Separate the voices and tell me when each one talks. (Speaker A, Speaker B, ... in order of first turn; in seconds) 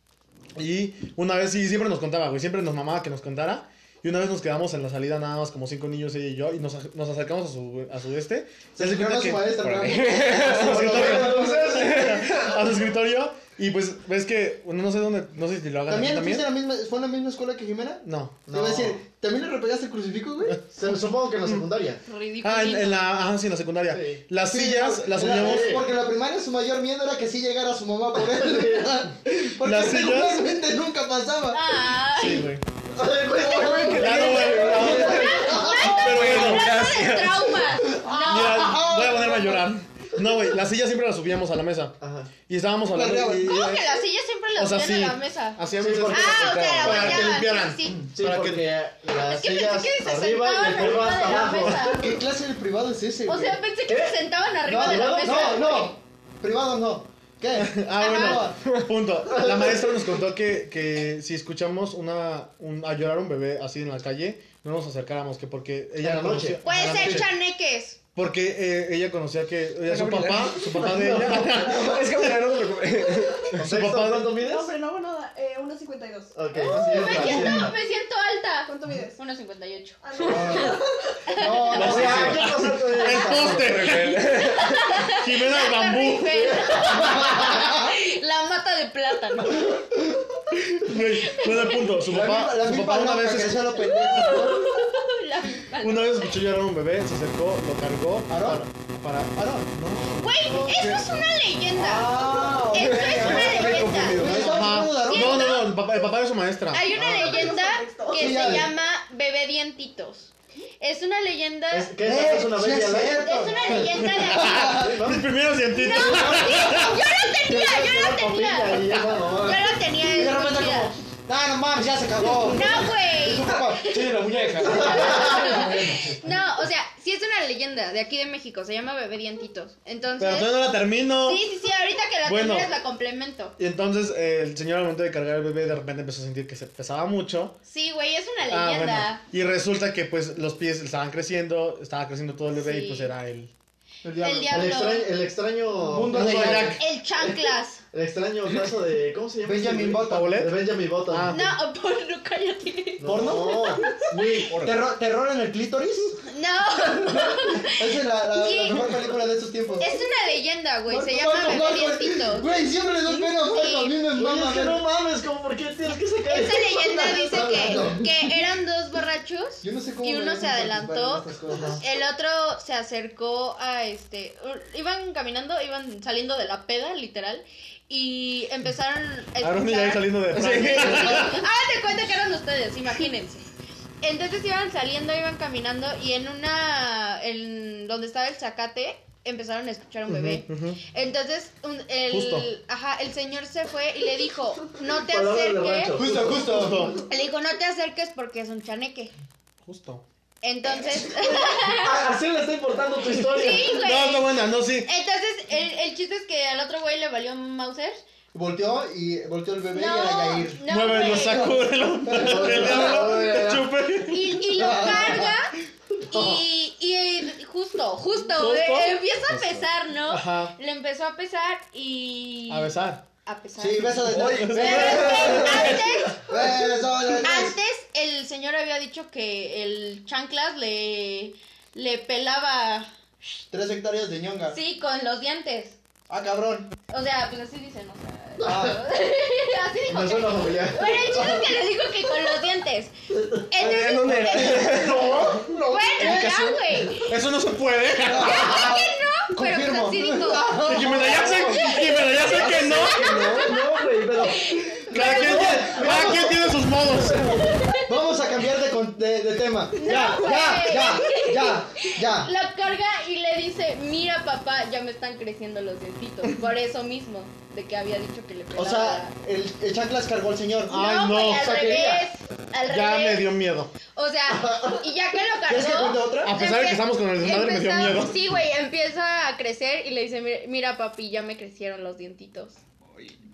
Speaker A: 0.6-9.6, 10.3-16.5, 18.0-18.4, 22.4-25.8, 29.3-30.5, 32.1-32.6, 33.5-36.7, 38.2-42.0, 42.5-44.0, 44.5-48.7, 57.5-67.3, 68.1-72.4, 73.5-74.3, 76.7-77.3, 81.8-84.3, 85.0-86.7, 90.6-93.8, 95.8-100.2, 104.3-107.1, 113.7-117.0, 130.2-131.4, 132.2-132.7, 133.6-137.6, 138.4-143.5, 146.1-146.8, 150.0-151.6, 171.5-171.8, 179.4-181.4, 190.1-190.8, 192.1-192.5, 196.1-197.0, 199.6-200.0, 203.3-204.9, 210.7-214.4, 218.3-219.0, 220.1-220.5, 222.5-223.0, 224.1-225.3, 247.1-248.7, 250.6-253.3, 254.9-257.5, 270.7-271.7, 272.6-273.7, 276.2-278.3
Speaker B: 8.7-11.8, 15.9-20.6, 24.5-31.6, 33.3-36.0, 37.9-39.7, 42.9-43.6, 51.1-53.6, 54.6-58.6, 80.3-80.8, 81.3-82.5, 86.9-87.9, 92.0-94.7, 98.3-98.7, 99.3-99.7, 101.8-105.5, 108.1-108.7, 112.0-115.0, 115.9-116.8, 120.0-126.0, 144.0-144.8, 145.8-146.8, 149.4-150.4, 153.0-153.8, 154.6-156.2, 157.2-159.9, 160.9-164.8, 167.2-168.2, 169.6-171.8, 195.9-197.0, 208.3-213.3, 214.5-215.3, 223.6-227.5, 233.5-234.6, 236.1-236.7, 238.4-238.8, 240.9-241.4, 244.0-246.8, 248.0-251.6, 252.3-253.6, 255.2-256.2, 257.8-262.3, 268.5-270.8, 275.4-276.4
Speaker C: 9.6-12.6, 33.9-37.8, 46.3-47.4, 69.8-73.5, 83.4-85.0, 102.7-104.7, 124.1-124.8, 154.4-154.8, 180.3-181.3, 219.3-219.7, 225.2-225.7, 243.6-245.4
Speaker D: 10.4-12.3, 18.5-19.0, 20.7-22.0, 23.9-24.2, 25.1-25.9, 28.2-28.9, 32.9-35.8, 42.0-42.3, 45.7-46.8, 48.1-52.1, 53.9-55.6, 59.2-60.2, 66.0-66.6, 70.7-71.5, 73.5-74.7, 76.3-77.7, 81.7-83.9, 86.3-87.4, 100.5-100.7, 111.7-113.3, 114.4-115.3, 117.4-119.7, 124.5-126.2, 144.5-146.8, 147.9-151.4, 153.0-154.6, 164.1-167.9, 194.9-196.9, 201.2-203.8, 212.1-213.7, 224.1-225.9, 239.9-241.3, 243.1-243.4, 244.6-245.4, 253.3-257.4, 271.4-272.0
Speaker E: 22.1-23.1, 31.5-32.5, 33.5-38.7, 43.4-48.0, 49.1-52.1, 53.3-56.0, 58.0-58.5, 66.6-68.0, 76.8-80.7, 81.3-82.0, 84.4-89.8, 90.9-91.9, 93.9-96.3, 100.2-105.8, 106.7-111.9, 113.1-114.7, 115.7-120.9, 122.4-133.5, 137.7-139.2, 142.5-143.1, 144.2-145.1, 146.7-147.8, 151.3-154.0, 156.2-158.8, 159.8-162.5, 163.1-163.9, 166.3-183.5, 184.0-196.0, 197.0-199.1, 200.4-202.1, 203.1-208.0, 209.7-211.6, 214.1-215.5, 216.1-226.3, 227.2-232.9, 234.5-235.8, 236.9-242.9, 243.5-247.2, 248.2-256.2, 257.3-257.9, 259.7-269.1, 270.7-273.3, 273.9-282.6
Speaker F: 73.0-73.5, 74.3-77.7, 78.6-79.2, 80.0-81.2, 102.1-102.6, 106.9-108.7